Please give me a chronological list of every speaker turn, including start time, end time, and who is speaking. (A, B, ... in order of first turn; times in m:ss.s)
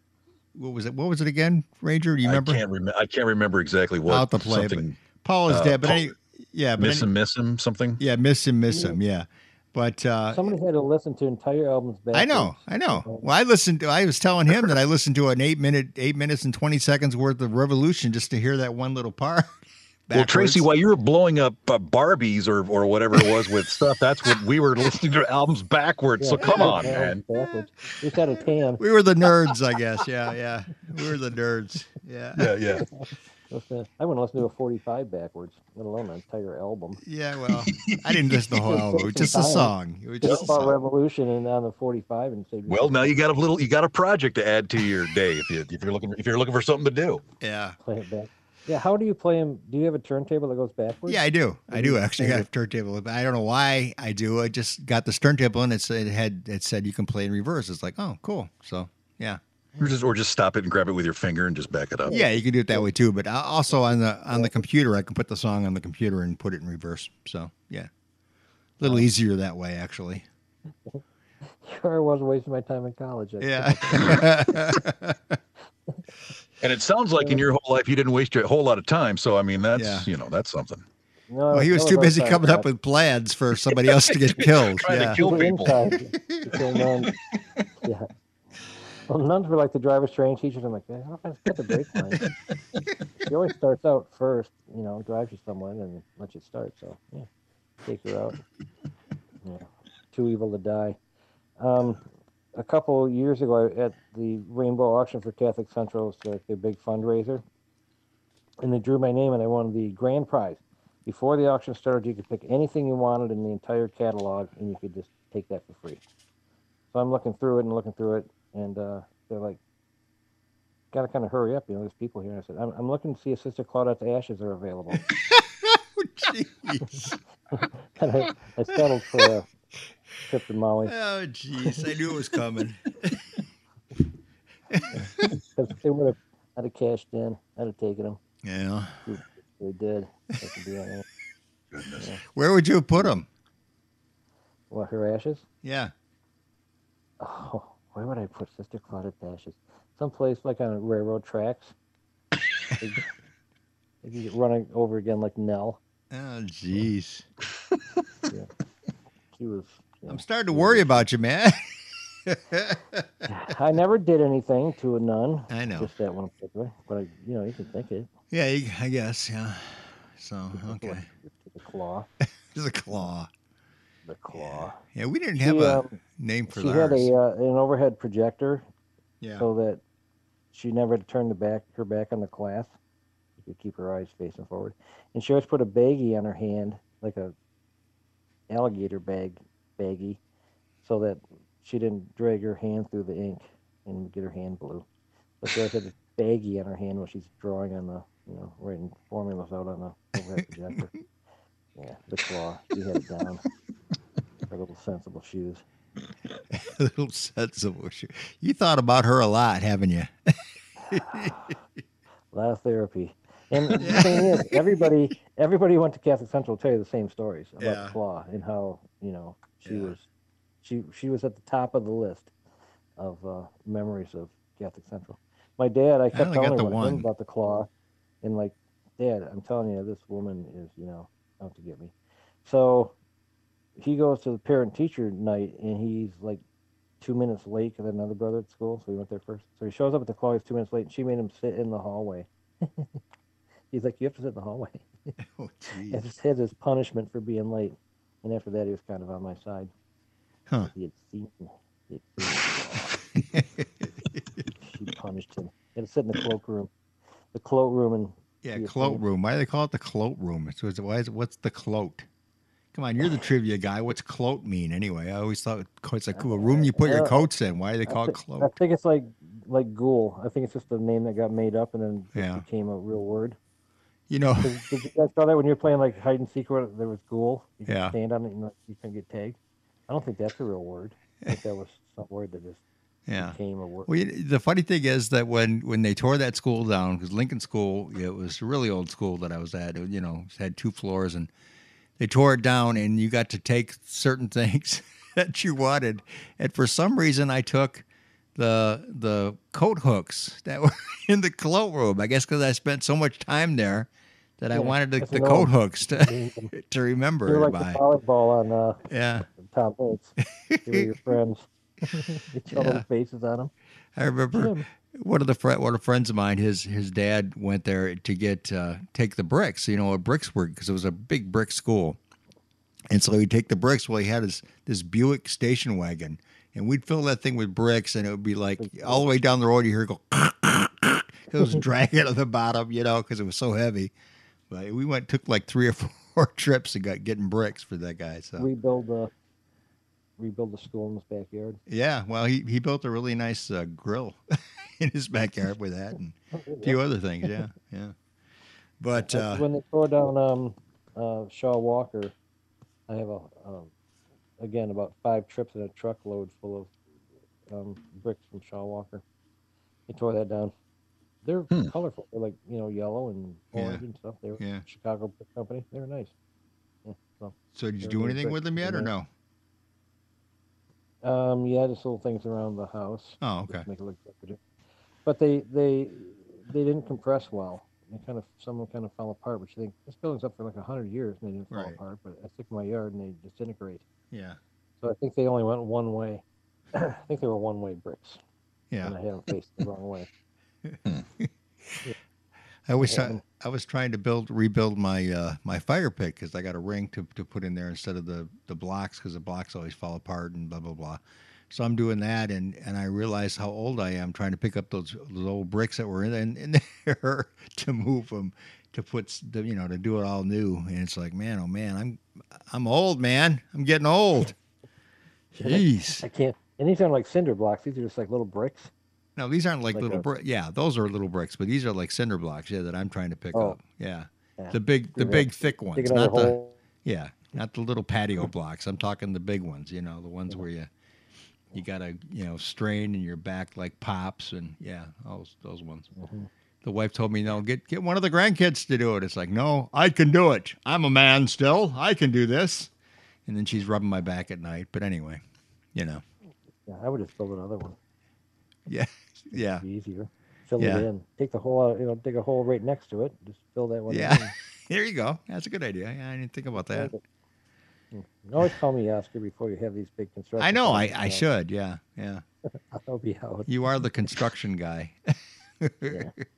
0:00.5-0:02.6 A
0:02.2-0:06.1 B
0:04.1-0:07.1 A
0:06.8-0:08.0 B
0:08.0-0:10.5 A
0:08.7-0:09.0 C
0:10.3-0:13.2 C
0:12.1-0:19.6 A
0:20.1-0:20.7 A
0:20.1-0:27.2 B
0:26.2-0:28.8 C
0:26.4-0:27.0 A
0:28.8-0:32.6 A
0:32.4-0:32.9 B
0:33.0-0:37.0 C
0:37.0-0:40.7 A
0:37.5-0:38.6 B
0:38.6-0:43.2 C
0:40.2-0:40.5 B
0:42.7-0:47.2 B
0:47.4-0:47.8 A
0:47.8-0:52.5 C
0:51.1-0:59.4 A
0:59.8-1:02.2 B
1:02.1-1:07.9 A
1:02.1-1:02.9 C
1:04.3-1:04.6 C
1:08.8-1:10.3 A
1:10.9-1:14.7 C
1:13.4-1:15.4 A
1:16.6-1:20.8 B
1:19.8-1:20.1 A
1:21.3-1:22.7 C
1:21.5-1:25.2 A
1:23.8-1:25.9 B
1:25.0-1:27.1 C
1:26.1-1:26.6 A
1:29.1-1:32.2 C
1:33.2-1:37.3 C
1:37.8-1:38.4 C
1:39.4-1:41.0 C
1:41.6-1:42.0 C
1:42.6-1:47.4 C
1:48.6-1:56.0 C
1:56.9-1:59.6 C
2:00.9-2:05.0 C
2:05.1-2:07.2 A
2:07.6-2:09.5 C
2:08.7-2:09.2 A
2:10.3-2:11.0 C
2:10.9-2:13.2 A
2:14.7-2:15.3 A
2:14.9-2:18.2 C
2:18.4-2:19.1 A
2:19.0-2:21.0 C
2:21.7-2:22.1 B
2:22.3-2:23.3 A
2:24.7-2:25.4 C
2:25.6-2:25.9 A
2:27.2-2:31.7 C
2:32.8-2:33.1 C
2:34.0-2:35.8 C
2:36.1-2:37.3 A
2:39.3-2:41.1 C
2:40.1-2:43.3 A
2:43.3-2:48.1 C
2:45.5-2:45.9 A
2:48.3-2:51.1 A
2:50.6-2:52.1 C
2:52.5-2:53.3 A
2:54.1-2:54.8 C
2:54.3-2:57.1 A
2:55.4-2:58.6 C
2:59.2-2:59.5 A
2:59.4-2:59.8 C
3:00.5-3:02.8 C
3:03.4-3:07.3 C
3:08.5-3:10.2 C
3:10.8-3:14.9 C
3:15.4-3:20.9 C
3:21.8-3:23.4 C
3:24.5-3:25.6 C
3:26.5-3:30.4 A
3:30.9-3:31.5 A
3:30.9-3:31.6 C
3:32.3-3:40.1 C
3:33.8-3:34.9 A
3:37.6-3:38.0 A
3:39.6-3:40.0 A
3:40.6-3:42.3 C
3:43.0-3:47.7 C
3:46.1-3:47.1 A
3:48.2-3:51.9 C
3:52.4-3:53.0 C
3:53.8-3:56.4 C
3:57.0-4:03.0 C
4:03.7-4:05.2 C
4:05.3-4:06.0 A
4:05.9-4:09.7 C
4:10.6-4:13.0 C
4:13.2-4:14.4 A
4:14.6-4:16.7 C
4:17.3-4:19.1 C
4:18.4-4:22.1 A
4:22.7-4:28.6 A
4:26.2-4:27.3 C
4:27.9-4:33.4 C
4:32.2-4:32.4 A
4:34.1-4:34.6 A
4:34.4-4:39.4 C
4:37.7-4:38.0 A
4:39.9-4:42.6 C
4:43.1-4:51.3 A
4:43.2-4:43.9 C
4:52.0-4:57.8 A
4:58.4-5:07.8 A
5:04.5-5:06.5 C
5:07.2-5:13.5 C
5:08.9-5:09.3 A
5:10.5-5:11.0 A
5:12.5-5:12.8 A
5:14.0-5:22.0 A
5:14.3-5:14.7 C
5:22.9-5:33.9 A
5:28.6-5:29.1 C
5:34.5-5:38.5 A
5:38.4-5:39.1 C
5:40.2-5:41.6 C
5:41.7-5:47.9 A
5:46.3-5:46.8 C
5:48.8-5:49.5 A
5:49.0-5:52.2 C
5:52.9-5:53.7 C
5:54.4-5:56.7 C
5:57.5-5:59.0 C
5:59.9-6:00.5 C
6:01.2-6:06.1 C
6:03.5-6:03.8 A
6:04.4-6:04.6 A
6:06.8-6:08.9 C
6:07.6-6:09.1 A
6:11.0-6:14.4 C
6:13.2-6:13.7 A
6:15.0-6:23.8 C
6:21.5-6:21.8 A
6:24.1-6:24.4 A
6:24.8-6:28.2 C
6:28.8-6:30.1 C
6:30.6-6:31.8 A
6:32.7-6:54.4 A
6:32.8-6:33.2 C
6:55.4-6:56.0 A
6:55.4-6:58.7 C
6:59.2-7:10.7 A
6:59.8-7:00.1 C
7:04.4-7:06.6 C
7:11.5-7:15.9 A
7:16.0-7:16.3 C
7:16.6-7:22.7 A
7:23.3-7:25.2 A
7:25.7-7:26.0 A
7:26.7-7:27.8 C
7:28.7-7:29.6 A
7:29.3-7:34.3 C
7:30.6-7:30.9 A
7:33.9-7:36.9 A
7:36.6-7:37.0 C
7:37.9-7:41.2 C
7:40.4-7:42.2 A
7:42.5-7:43.5 C
7:43.5-7:45.0 A
7:45.6-7:46.1 A